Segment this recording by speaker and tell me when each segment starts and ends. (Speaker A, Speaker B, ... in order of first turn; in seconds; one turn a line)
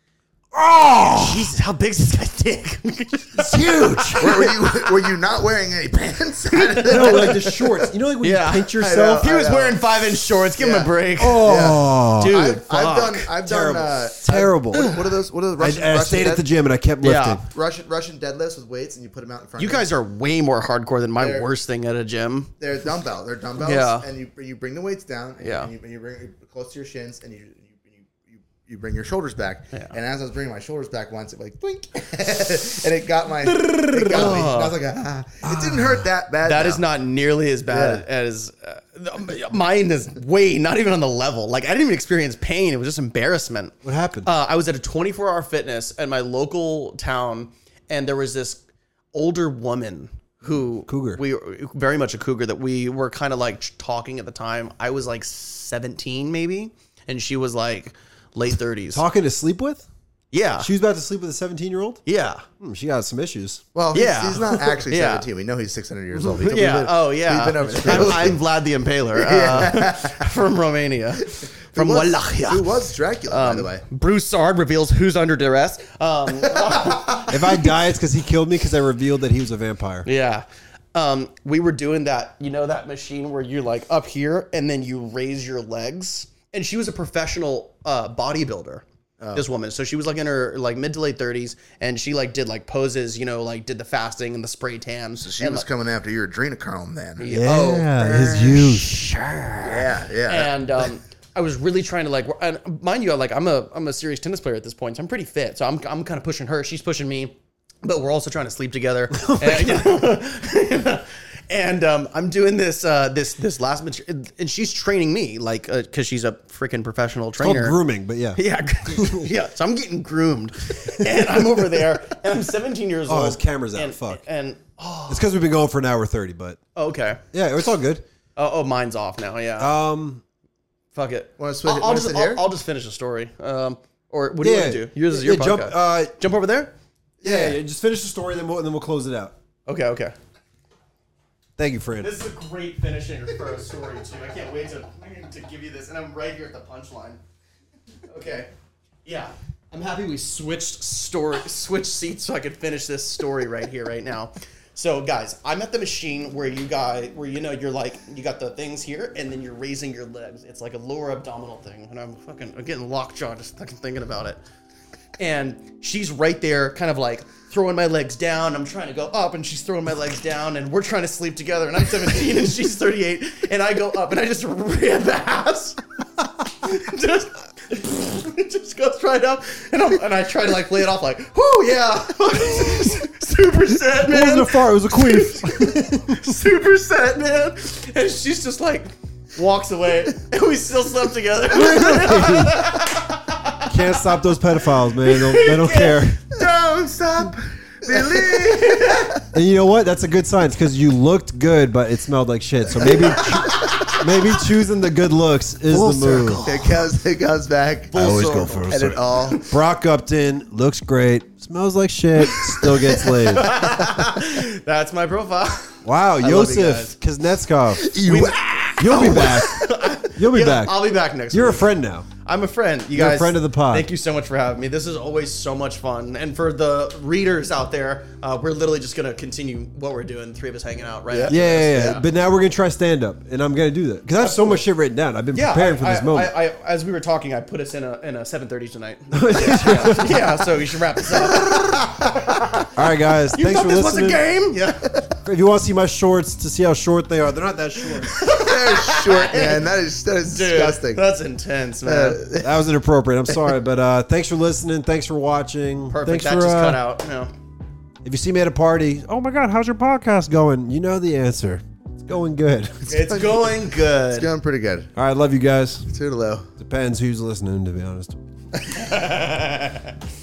Speaker A: 0.5-1.5
Speaker B: 1.1-4.9
Speaker A: 3.4-4.5
Speaker C: 4.2-7.9
Speaker B: 6.5-7.6
Speaker A: 6.9-9.2
Speaker B: 8.2-13.3
Speaker C: 8.7-9.8
Speaker C: 10.6-16.5
Speaker A: 11.2-12.3
Speaker A: 13.4-14.9
Speaker A: 15.6-17.4
Speaker B: 17.0-17.4
Speaker C: 17.5-19.9
Speaker B: 19.6-22.5
Speaker C: 21.2-21.5
Speaker C: 22.6-36.9
Speaker B: 23.6-24.1
Speaker B: 25.4-25.7
Speaker B: 33.4-34.8
Speaker A: 35.4-36.1
Speaker B: 36.4-48.6
Speaker C: 37.7-38.0
Speaker A: 43.8-44.3
Speaker B: 49.1-59.0
Speaker A: 50.9-51.2
Speaker A: 58.9-59.9
Speaker B: 60.3-60.7
Speaker A: 60.6-62.0
Speaker B: 62.0-62.5
Speaker A: 62.6-63.6
Speaker C: 63.7-68.4
Speaker B: 63.9-65.2
Speaker B: 66.1-72.7
Speaker A: 67.7-68.3
Speaker C: 69.1-70.3
Speaker C: 71.2-73.8
Speaker B: 73.3-77.7
Speaker C: 76.5-77.2
Speaker A: 77.3-80.1
Speaker B: 80.0-95.7
Speaker C: 89.2-89.5
Speaker C: 95.2-97.2
Speaker B: 97.2-117.8
Speaker A: 97.2-99.1
Speaker C: 99.6-100.9
Speaker A: 109.1-109.9
Speaker A: 117.4-119.3
Speaker B: 118.3-125.2
Speaker A: 123.1-124.2
Speaker A: 125.1-126.6
Speaker B: 126.7-127.2
Speaker A: 127.3-128.0
Speaker B: 128.3-129.7
Speaker A: 129.6-130.2
Speaker B: 130.9-136.7
Speaker C: 131.4-132.4
Speaker A: 134.4-136.1
Speaker C: 137.2-137.5
Speaker A: 137.2-139.3
Speaker B: 139.7-140.1
Speaker A: 141.6-142.2
Speaker B: 142.0-147.2
Speaker B: 148.1-148.5
Speaker B: 149.0-164.4
Speaker B: 165.2-175.8
Speaker B: 176.4-194.2
Speaker A: 183.9-186.3
Speaker A: 191.5-192.8
Speaker A: 193.7-196.2
Speaker B: 194.8-199.2
Speaker C: 197.8-199.2
Speaker A: 199.3-206.4
Speaker C: 202.8-203.9
Speaker B: 202.8-204.3
Speaker B: 205.7-206.9
Speaker C: 206.4-209.4
Speaker B: 207.9-209.5
Speaker A: 207.9-213.5
Speaker B: 212.2-216.9
Speaker C: 213.2-213.6
Speaker A: 215.8-218.0
Speaker C: 217.8-219.7
Speaker B: 218.0-232.0
Speaker A: 218.8-222.1
Speaker A: 222.9-223.9
Speaker C: 231.1-231.4
Speaker A: 231.3-236.4
Speaker B: 234.2-234.6
Speaker B: 235.3-242.7
Speaker A: 239.1-240.4
Speaker C: 241.2-242.5
Speaker A: 242.7-244.2
Speaker B: 243.3-245.0
Speaker A: 245.2-248.2
Speaker B: 248.1-249.7
Speaker C: 248.2-251.0
Speaker B: 250.2-252.2
Speaker C: 251.8-252.6
Speaker A: 252.4-256.8
Speaker B: 255.9-257.3
Speaker A: 258.0-262.9
Speaker B: 262.9-264.3
Speaker C: 262.9-264.9
Speaker A: 264.9-265.9
Speaker C: 265.9-266.5
Speaker A: 266.6-268.2
Speaker B: 268.7-269.9